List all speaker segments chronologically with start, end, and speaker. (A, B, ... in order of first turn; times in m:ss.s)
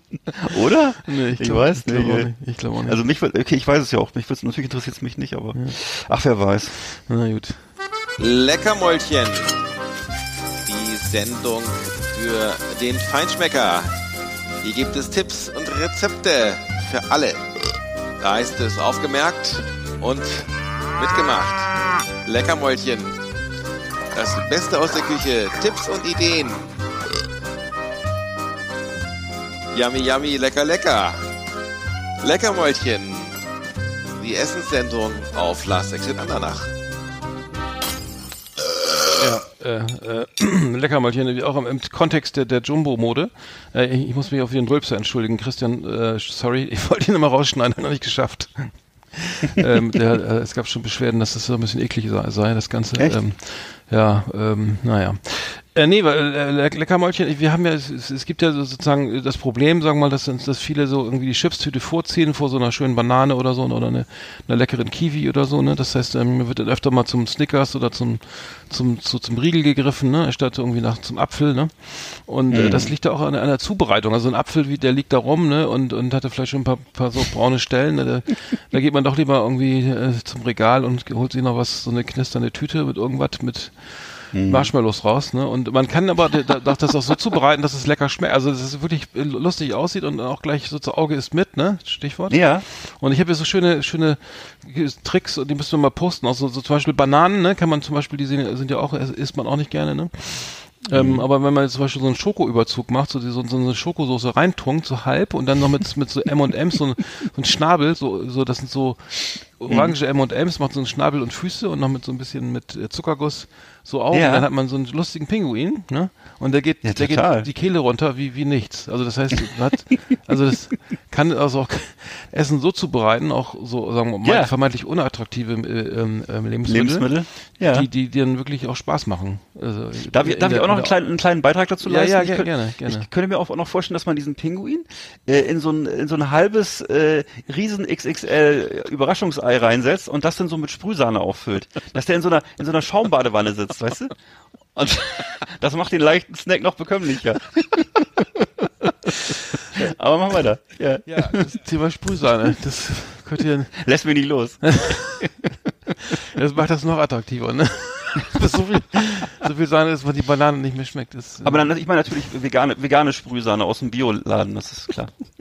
0:00.3-0:02.3 A
0:01.1-0:03.0 B
0:02.8-0:06.8 A
0:06.9-0:07.7 B
0:08.2-0:09.6 C
0:10.7-0:13.9 C
0:14.6-0:17.5 C
0:18.2-0:21.7 C
0:22.2-0:23.2 C
0:24.1-0:26.7 C
0:29.7-0:31.2 C
0:32.2-0:33.4 C
0:34.2-0:36.7 C
0:39.2-2:11.0 B
1:12.5-1:12.9 A
1:24.3-1:24.7 A
1:32.3-1:32.7 A
1:40.9-1:41.3 A
1:49.7-1:50.0 A
1:54.1-1:54.5 A
1:56.8-1:57.5 A
2:04.2-2:04.5 A
2:06.7-2:07.9 A
2:10.1-2:24.1 A
2:11.8-2:13.1 B
2:24.8-2:31.5 A
2:31.1-2:33.9 B
2:33.8-2:35.0 A
2:34.6-2:35.3 B
2:36.0-2:41.7 B
2:41.4-2:45.2 A